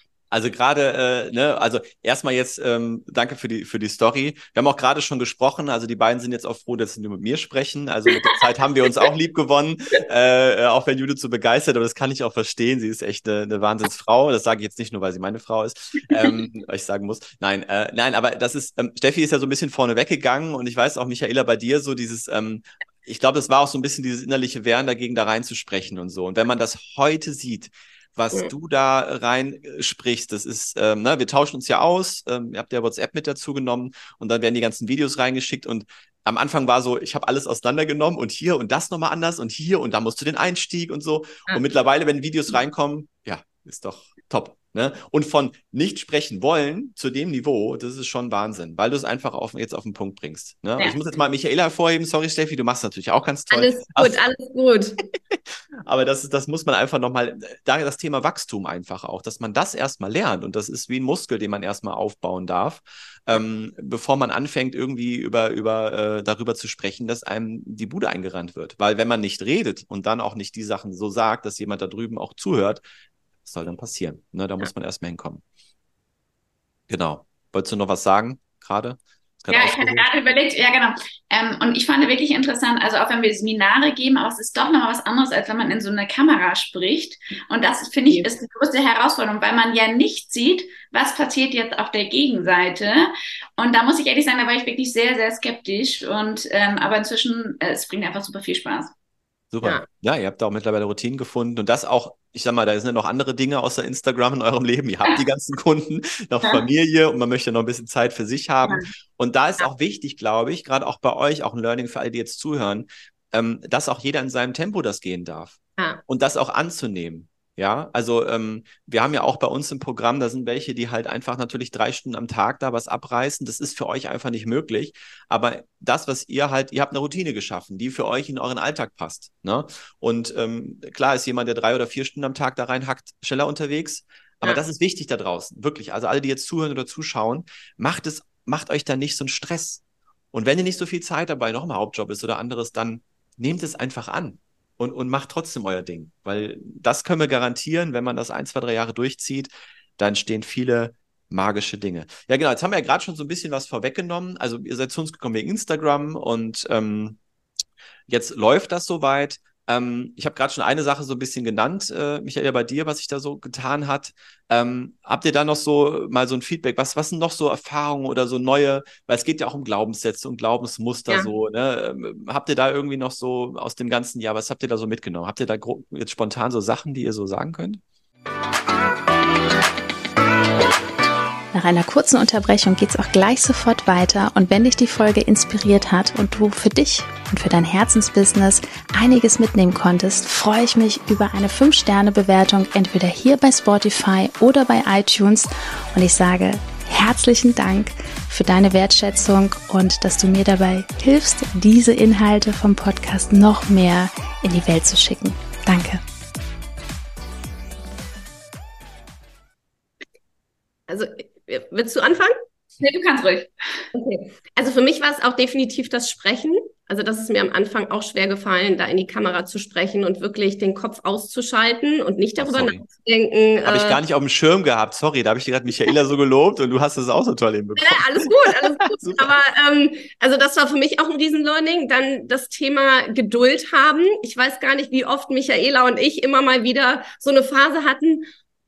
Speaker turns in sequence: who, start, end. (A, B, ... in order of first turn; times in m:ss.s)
0:00.3-0:54.2 A
0:53.5-0:55.0 B
0:55.3-1:12.8 A
1:13.4-1:15.4 A
1:16.9-1:20.1 A
1:19.5-1:38.9 C
1:39.5-2:19.8 A
2:20.3-2:37.2 A
2:38.1-2:57.8 A
3:01.5-3:26.0 D
3:30.9-3:32.4 B
3:32.8-3:33.8 C
3:33.9-3:44.0 B
3:42.4-3:42.8 A
3:43.6-3:49.3 A
3:47.8-3:58.3 B